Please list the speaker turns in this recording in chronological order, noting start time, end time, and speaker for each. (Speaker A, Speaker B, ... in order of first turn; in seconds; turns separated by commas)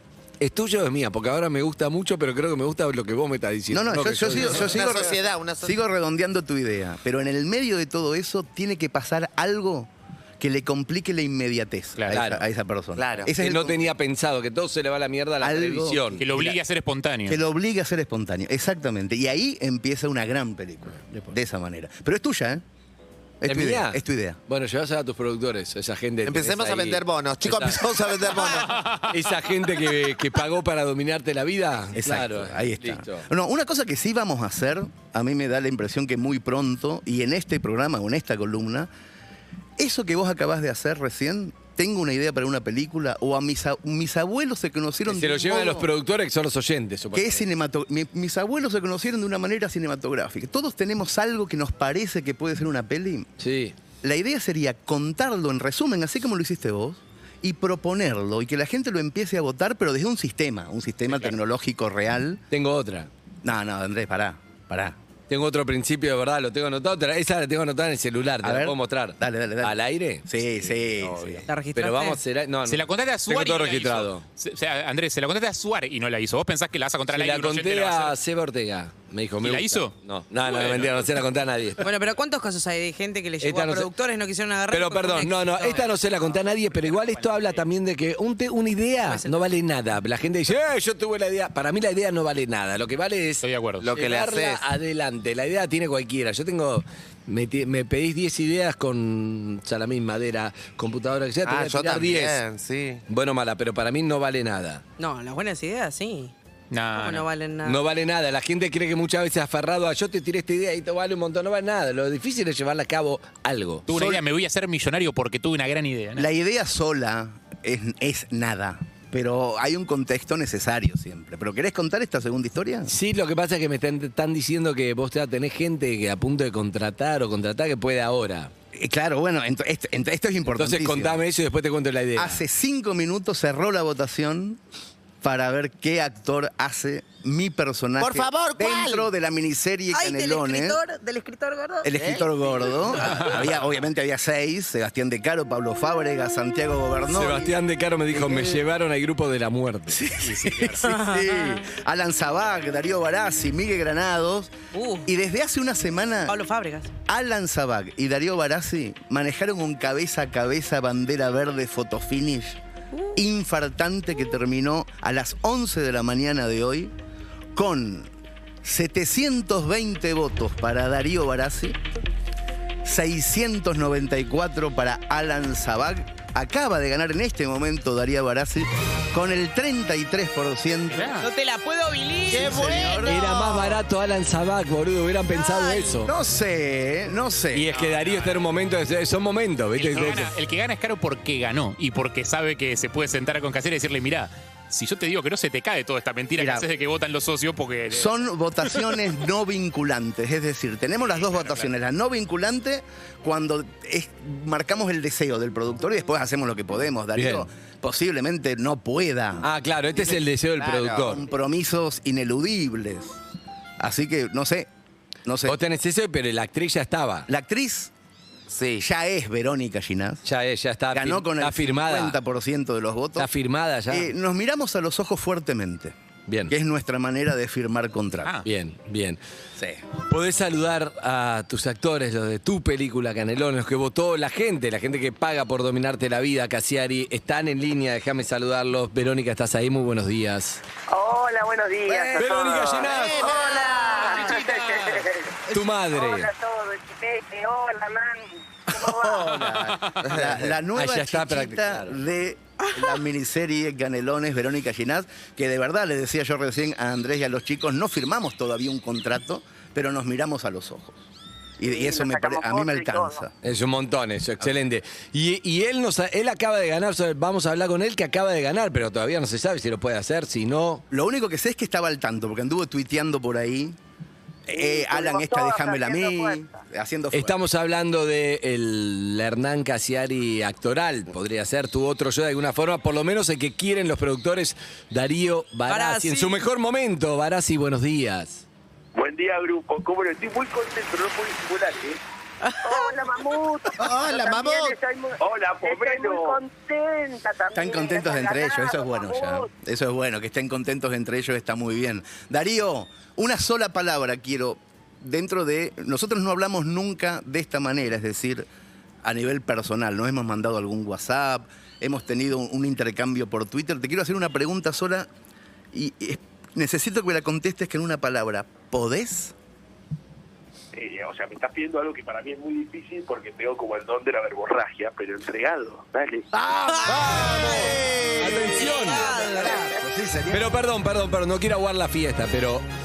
Speaker A: 0.4-5.0, Speaker B: 3.7-13.8, Speaker C: 4.4-5.8, Speaker A: 12.1-12.4, Speaker C: 12.9-13.3, Speaker A: 13.4-16.2, Speaker B: 15.4-16.6, Speaker D: 16.2-17.4, Speaker B: 17.3-22.6, Speaker B: 23.4-24.4, Speaker A: 23.5-28.3, Speaker C: 26.2-28.9, Speaker D: 28.7-29.1, Speaker A: 29.0-33.3, Speaker B: 31.9-38.9, Speaker B: 39.8-45.9, Speaker A: 45.1-47.5, Speaker B: 47.1-53.3, Speaker A: 53.4-53.8, Speaker B: 54.0-62.4, Speaker A: 62.5-63.1, Speaker B: 63.4-65.0, Speaker A: 65.3-74.2, Speaker B: 68.4-71.4, Speaker E: 71.5-72.2, Speaker D: 72.7-78.2, Speaker A: 77.1-81.9, Speaker D: 79.4-81.1, Speaker E: 81.8-85.9, Speaker A: 83.4-83.9, Speaker A: 84.7-102.4, Speaker D: 85.9-87.7, Speaker E: 89.0-89.4, Speaker D: 93.4-93.9, Speaker C: 93.8-94.7, Speaker C: 101.4-103.0, Speaker A: 103.1-104.8, Speaker E: 105.0-106.3, Speaker D: 106.7-107.3, Speaker E: 106.9-107.8, Speaker A: 107.6-113.9, Speaker D: 113.9-116.3, Speaker B: 113.9-114.2, Speaker B: 116.2-122.9, Speaker A: 122.9-128.5, Speaker B: 128.7-131.2, Speaker A: 130.6-132.4, Speaker B: 132.2-134.6, Speaker B: 135.2-140.8, Speaker C: 138.0-139.1, Speaker E: 139.9-143.3, Speaker B: 141.8-147.6, Speaker D: 143.0-143.5, Speaker A: 147.1-150.0, Speaker B: 149.9-156.3, Speaker D: 150.2-150.9, Speaker E: 150.8-151.6, Speaker E: 154.7-155.1, Speaker E: 156.3-156.9, Speaker B: 157.1-162.6, Speaker B: 163.2-166.9, Speaker B: 167.6-168.1, Speaker B: 168.6-171.8, Speaker B: 172.8-181.1, Speaker D: 180.9-181.3, Speaker E: 181.2-182.7, Speaker B: 182.3-183.3, Speaker C: 182.3-183.8, Speaker A: 183.1-186.1, Speaker E: 185.3-186.0, Speaker B: 186.1-187.7, Speaker A: 187.5-190.3, Speaker D: 187.7-188.5, Speaker D: 189.8-198.1, Speaker B: 196.4-196.7, Speaker B: 197.9-209.5, Speaker D: 198.7-198.9, Speaker D: 201.2-201.7, Speaker A: 207.2-207.5, Speaker A: 209.4-211.2, Speaker C: 210.0-211.2, Speaker B: 211.0-213.2, Speaker B: 213.8-214.7, Speaker B: 215.2-215.6, Speaker A: 215.5-217.3, Speaker B: 217.3-217.9, Speaker C: 218.5-218.9, Speaker B: 218.8-220.2, Speaker A: 220.2-222.2, Speaker B: 220.9-223.3, Speaker A: 223.2-224.1, Speaker B: 223.9-225.9, Speaker A: 226.3-226.5, Speaker B: 226.5-228.3, Speaker A: 228.4-229.2, Speaker B: 229.6-229.8, Speaker A: 230.1-240.6, Speaker F: 240.9-245.4, Speaker B: 241.9-242.8, Speaker A: 242.1-243.3, Speaker C: 242.3-244.3, Speaker E: 244.2-245.0, Speaker A: 245.5-246.3, Speaker F: 245.9-249.5, Speaker B: 248.7-261.0, Speaker C: 250.0-250.4, Speaker A: 250.8-252.0, Speaker B: 261.6-263.3, Speaker F: 261.6-263.2, Speaker A: 263.4-270.9, Speaker B: 270.9-273.8, Speaker B: 274.5-277.4, Speaker F: 274.5-276.6, Speaker A: 277.1-288.4, Speaker E: 285.7-286.4, Speaker G: 288.9-292.0, Speaker E: 292.4-292.9, Speaker F: 292.6-299.5, Speaker C: 293.8-294.8, Speaker G: 295.2-296.4, Speaker B: 297.5-308.5, Speaker B: 309.0-315.1, Speaker B: 315.7-319.4, Speaker G: 320.7-326.3, Speaker B: 326.4-330.5, Speaker E: 326.7-327.8, Speaker A: 328.2-329.6, Speaker E: 328.4-329.8, Speaker A: 330.3-332.6